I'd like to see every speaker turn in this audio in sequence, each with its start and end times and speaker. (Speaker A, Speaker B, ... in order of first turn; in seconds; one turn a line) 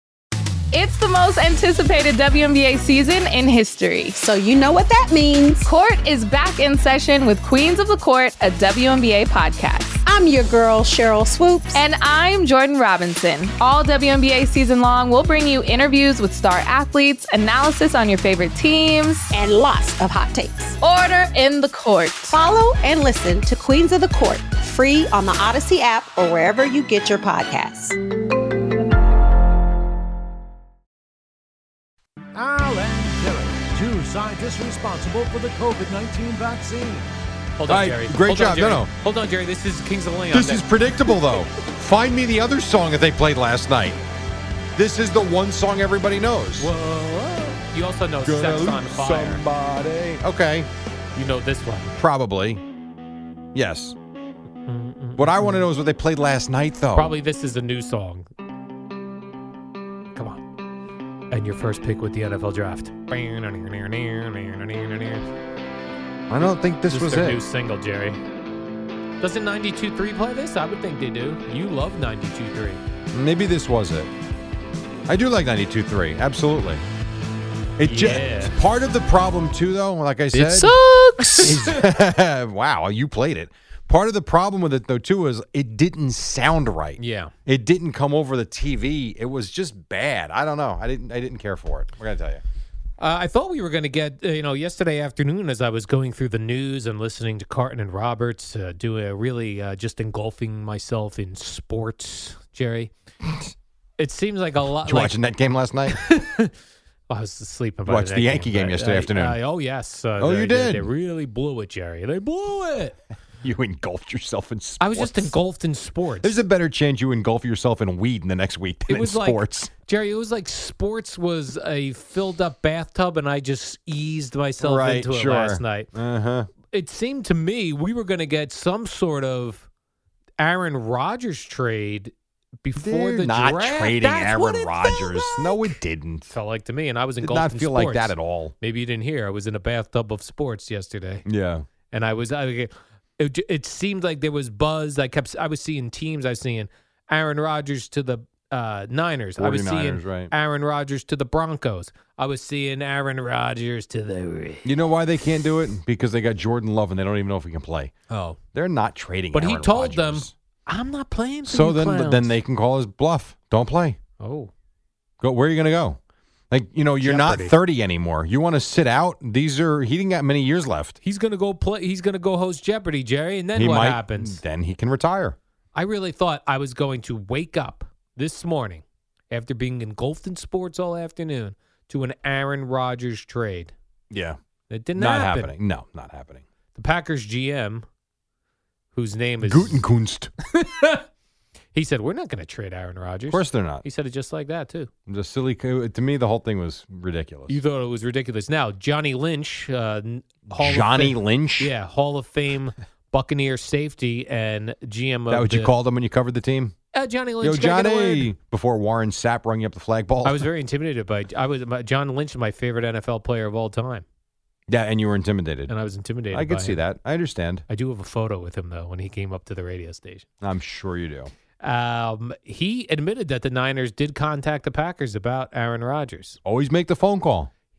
Speaker A: 0.7-4.2
Speaker B: 4.2-5.7
Speaker A: 5.6-10.0
Speaker B: 10.1-11.8
Speaker A: 11.7-19.3
Speaker B: 19.3-20.8
Speaker A: 20.8-22.4
Speaker B: 22.3-28.0
Speaker C: 32.4-37.1
Speaker D: 37.6-41.1
Speaker E: 37.7-38.9
Speaker E: 40.3-44.0
Speaker E: 44.8-46.7
Speaker D: 46.6-49.4
Speaker E: 48.2-50.7
Speaker D: 51.1-52.0
Speaker E: 52.0-52.6
Speaker E: 53.5-54.0
Speaker D: 54.7-55.6
Speaker E: 55.2-57.1
Speaker D: 56.9-58.3
Speaker D: 60.1-60.5
Speaker D: 61.3-65.3
Speaker E: 66.3-67.4
Speaker D: 66.9-68.2
Speaker D: 69.2-72.8
Speaker E: 73.1-74.1
Speaker E: 75.1-76.8
Speaker E: 77.8-80.7
Speaker D: 77.8-78.5
Speaker D: 80.3-81.8
Speaker E: 81.4-92.4
Speaker D: 87.0-87.3
Speaker D: 93.0-102.9
Speaker D: 104.0-105.2
Speaker E: 104.8-106.0
Speaker D: 105.9-106.5
Speaker D: 107.1-113.0
Speaker E: 107.9-109.4
Speaker E: 110.2-110.9
Speaker E: 113.4-115.3
Speaker D: 114.8-116.3
Speaker E: 116.2-119.7
Speaker D: 118.9-125.9
Speaker E: 124.6-126.5
Speaker D: 126.6-129.7
Speaker D: 130.4-135.8
Speaker E: 132.8-136.3
Speaker D: 136.3-141.2
Speaker E: 137.2-138.5
Speaker E: 141.3-141.7
Speaker D: 141.9-154.7
Speaker E: 149.4-150.3
Speaker E: 154.6-157.9
Speaker D: 158.1-158.4
Speaker E: 158.5-160.3
Speaker D: 159.3-162.3
Speaker E: 161.5-164.0
Speaker D: 164.2-164.5
Speaker E: 165.2-166.0
Speaker E: 166.5-171.0
Speaker D: 167.0-167.6
Speaker D: 171.0-174.4
Speaker E: 173.6-175.4
Speaker D: 175.7-183.7
Speaker E: 184.1-184.4
Speaker D: 184.7-185.6
Speaker E: 185.0-186.4
Speaker D: 186.8-187.9
Speaker D: 188.9-189.8
Speaker E: 189.4-190.3
Speaker D: 190.5-191.1
Speaker D: 191.7-194.9
Speaker E: 193.3-193.8
Speaker E: 195.1-197.6
Speaker D: 197.5-205.7
Speaker E: 200.5-201.7
Speaker E: 205.3-206.8
Speaker D: 206.9-208.3
Speaker E: 207.4-210.5
Speaker D: 210.2-214.1
Speaker E: 214.7-215.7
Speaker D: 215.7-216.8
Speaker E: 216.3-217.6
Speaker D: 217.7-220.3
Speaker E: 220.4-221.3
Speaker D: 221.6-226.4
Speaker E: 226.4-227.5